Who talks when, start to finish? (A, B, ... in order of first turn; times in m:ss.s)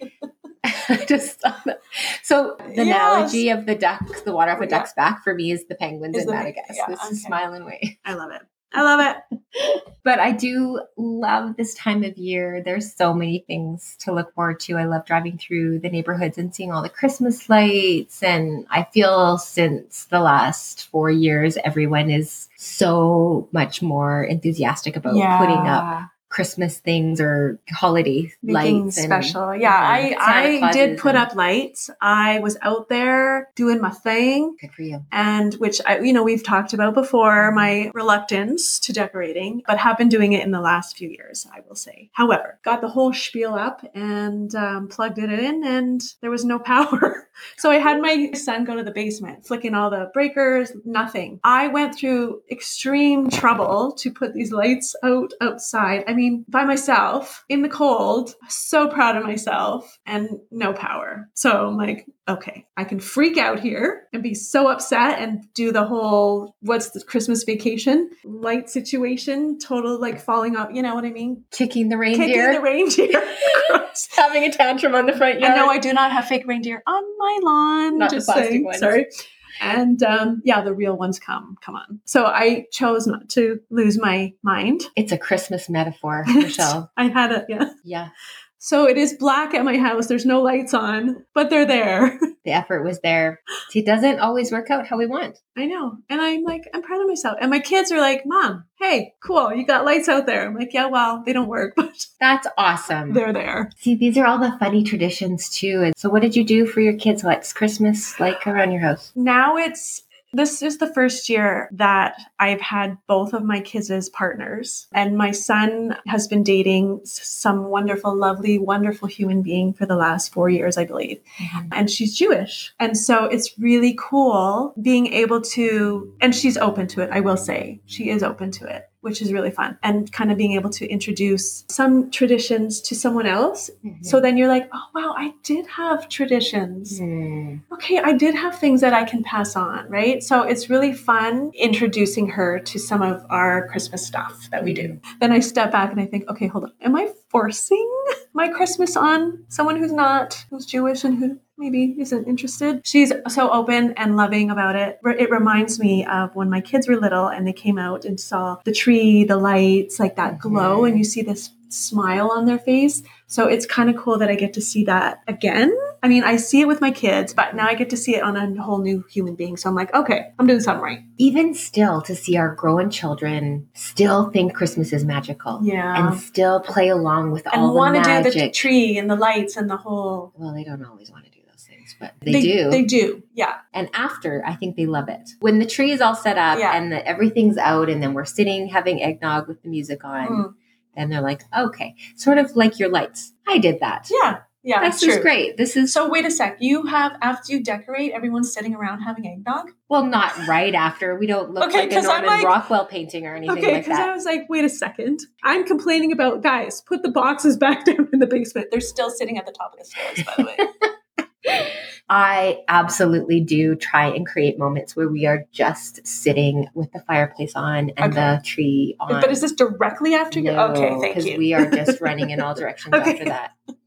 0:00.6-0:08.0 A
0:02.6-0:03.4 B
0:04.5-0:04.9 B
0:06.1-0:07.4 B
0:08.0-0:09.2 B
0:10.0-0:31.3 A
0:25.0-0:26.1 B
0:28.4-0:34.6 B
0:34.6-0:35.1 A
0:35.1-1:11.4 B
0:37.4-0:37.8 A
1:11.5-1:12.6 A
1:12.1-1:14.1 B
1:13.5-1:15.8 A
1:15.4-1:19.1 B
1:18.0-1:19.0 A
1:19.6-1:24.9 B
1:25.0-1:26.9 A
1:26.3-1:27.7 B
1:27.8-1:28.1 A
1:28.6-1:32.2 B
1:32.4-1:35.4 A
1:35.6-1:42.1 B
1:42.2-1:43.2 A
1:43.1-1:43.7 B
1:43.8-1:49.1 A
1:49.2-2:17.0 B
2:01.4-2:01.7 A
2:13.8-2:14.2 A
2:16.9-2:17.6 A
2:17.7-2:51.0 B
2:24.6-2:25.0 A
2:40.2-2:41.1 A
2:51.2-2:58.7 A
2:55.6-2:56.2 B
2:57.5-3:00.3 B
3:00.4-3:02.8 A
3:02.3-3:03.6 B
3:03.7-3:14.1 A
3:06.5-3:06.8 B
3:10.2-3:10.5 B
3:14.1-3:15.3 B
3:14.8-3:16.0 A
3:15.9-3:19.7 B
3:19.9-3:24.1 A
3:21.6-3:22.6 B
3:23.4-3:30.7 B
3:30.2-3:30.6 A
3:31.5-3:39.4 A
3:38.0-3:38.4 B
3:39.1-3:42.3 B
3:40.3-3:43.5 A
3:42.9-3:43.3 B